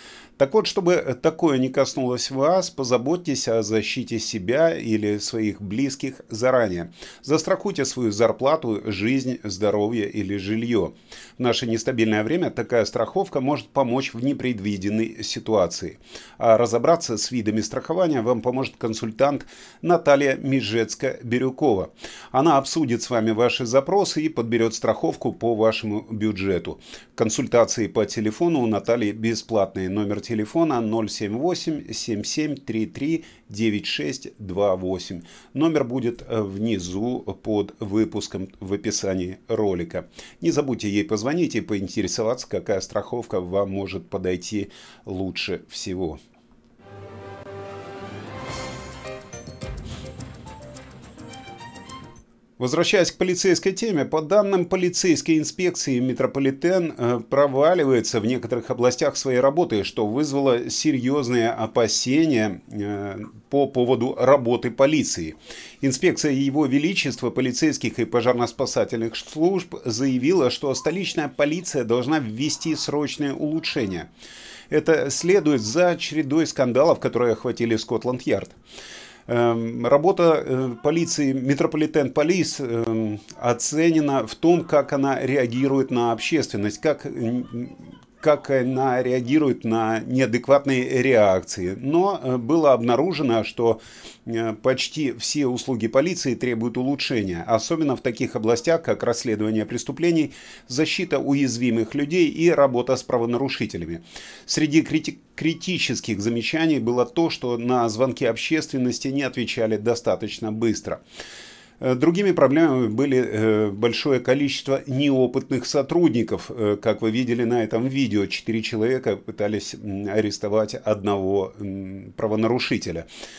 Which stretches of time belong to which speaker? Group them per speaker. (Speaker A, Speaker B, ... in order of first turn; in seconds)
Speaker A: 0.4-46.2, 52.6-74.1, 74.7-78.5, 79.3-111.0, 111.8-123.1